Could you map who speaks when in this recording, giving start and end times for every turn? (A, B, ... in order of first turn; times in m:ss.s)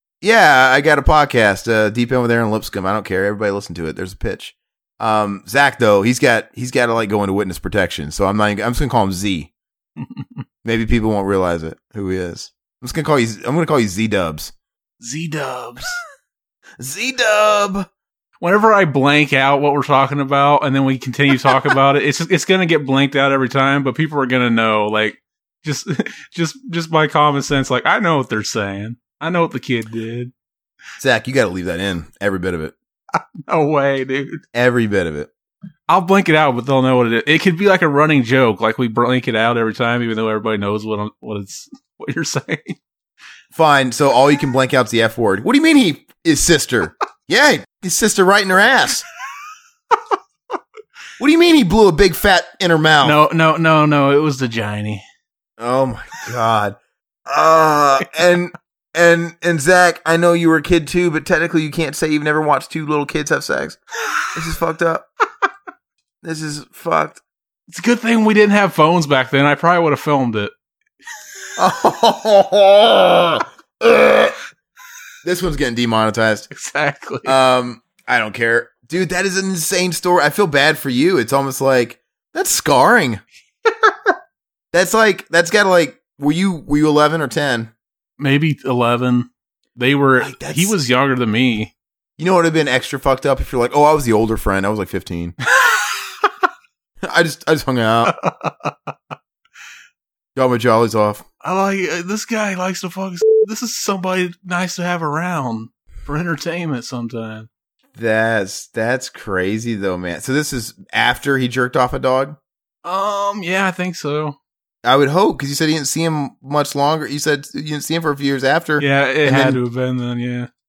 0:00.2-0:09.5 A
0:10.0-0:10.4 B
0:10.6-0:14.5 A
0:15.0-0:16.0 B
0:16.8-0:17.9 A
0:18.4-0:30.3 B
0:31.0-0:32.7 A
0:33.1-0:34.4 B
0:34.5-0:35.3 A
0:35.9-0:42.8 B
0:43.5-0:49.0 A
0:51.2-0:53.2 A
0:53.0-0:55.0 B
0:55.6-1:03.8 A
1:04.3-1:05.1 A
1:06.2-1:07.2 A
1:07.7-1:10.5 B
1:11.6-1:14.4 A
1:15.2-1:16.5 A
1:16.5-1:17.3 B
1:17.2-1:23.2 A
1:24.7-1:27.7 A
1:28.2-1:31.7 B
1:30.2-1:30.7 A
1:32.2-1:35.4 A
1:35.4-1:36.3 B
1:37.0-1:38.1 A
1:38.0-1:38.9 B
1:40.3-1:41.2 A
1:41.4-1:47.5 B
1:47.9-1:52.4 A
1:52.8-1:54.4 B
1:54.8-1:59.6 A
1:58.8-2:00.5 B